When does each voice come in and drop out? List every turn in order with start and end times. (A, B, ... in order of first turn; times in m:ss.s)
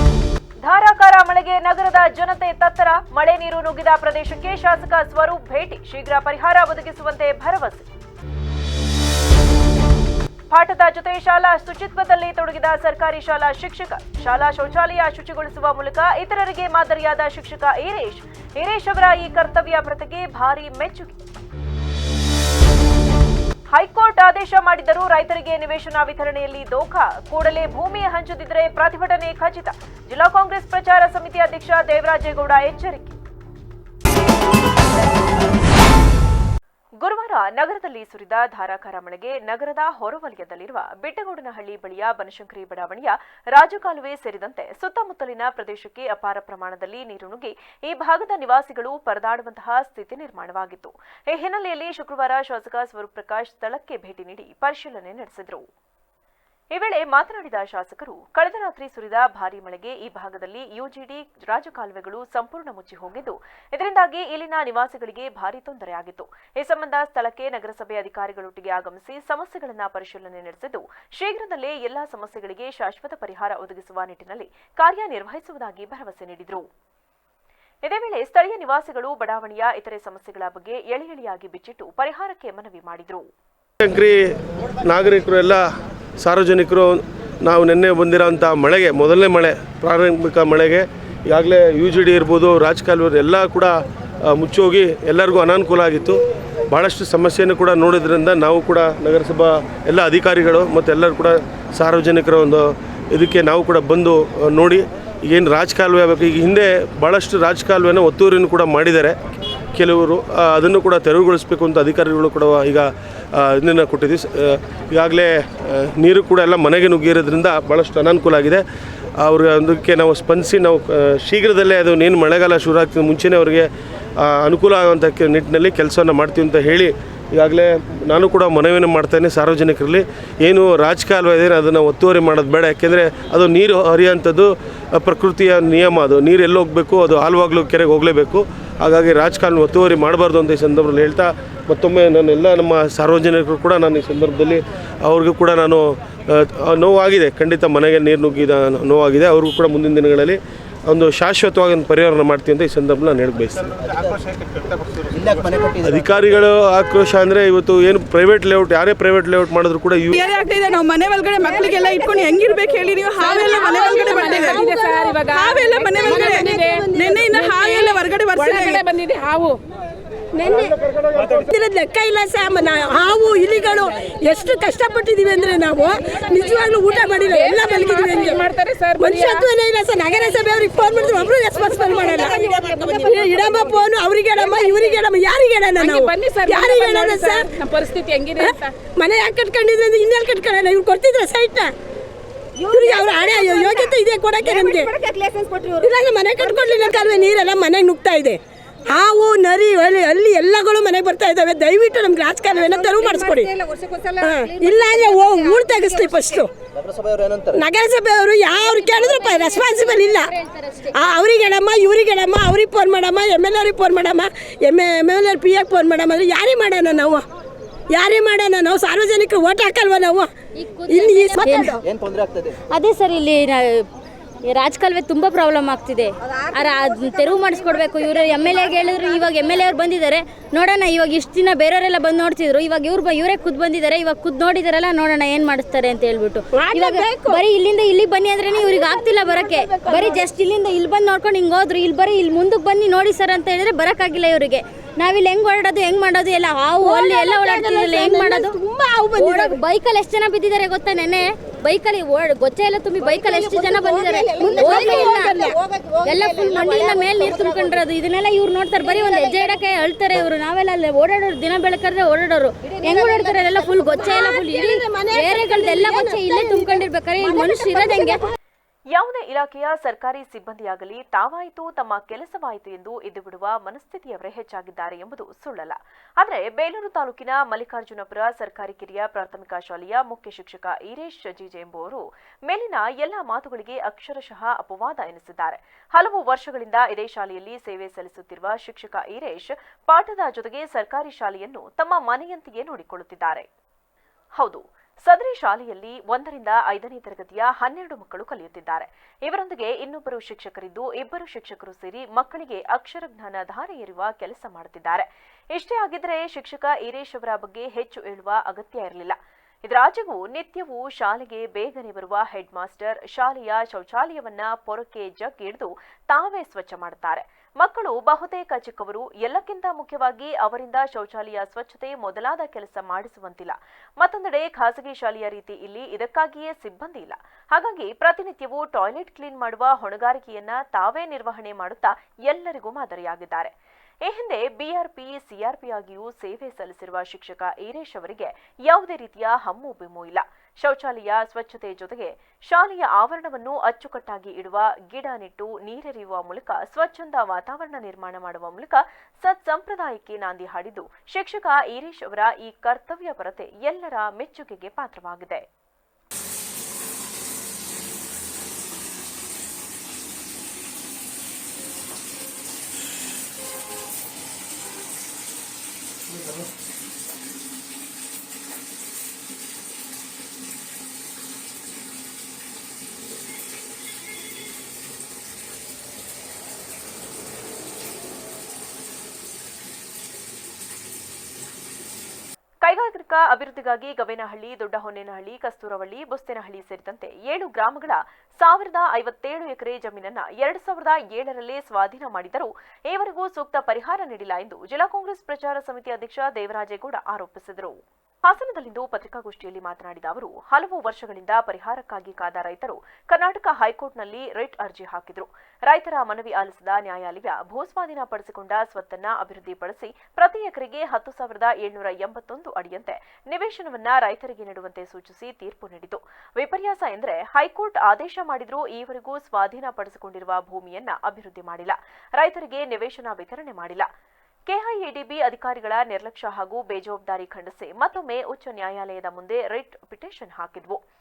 0:00.6-0:07.8 A
0:10.5-0:21.2 A
0:23.7-0:33.2 A
0:37.0-0:55.6 A
0:56.7-1:16.7 A
1:17.8-1:23.3 A
1:23.8-1:24.2 B
1:24.8-1:25.6 B
1:26.2-1:33.7 B
1:34.2-1:36.2 B
1:36.7-1:49.2 B
1:49.8-1:58.6 B
1:59.2-2:03.7 B
2:04.2-2:33.8 B
2:35.2-2:40.2 B
2:40.1-2:44.7 C
2:43.3-2:47.8 D
2:44.6-2:45.2 E
2:45.3-2:48.9 C
2:48.8-2:49.5 E
2:50.4-2:50.8 D
2:51.4-3:07.5 D
2:57.3-2:59.5 E
3:02.0-3:03.7 C
3:05.8-3:08.7 E
3:08.4-3:11.7 D
3:12.6-3:26.5 D
3:12.8-3:13.8 C
3:14.5-3:14.8 C
3:24.4-3:24.7 C
3:27.5-3:30.3 D
3:29.0-3:30.9 F
3:30.9-3:37.2 D
3:37.9-3:40.3 D
3:40.6-3:41.8 F
3:40.9-3:41.8 D
3:42.7-3:43.8 F
3:44.4-4:08.6 F
3:46.5-3:49.2 D
3:56.6-3:57.4 D
3:58.5-4:00.3 D
4:06.8-4:09.6 D
4:09.1-4:28.2 F
4:13.0-4:17.8 D
4:18.8-4:19.8 D
4:22.7-4:28.3 D
4:28.9-4:53.5 A
4:54.4-5:33.5 A
5:34.0-5:55.4 A
6:22.6-7:03.9 A
7:04.5-7:10.8 A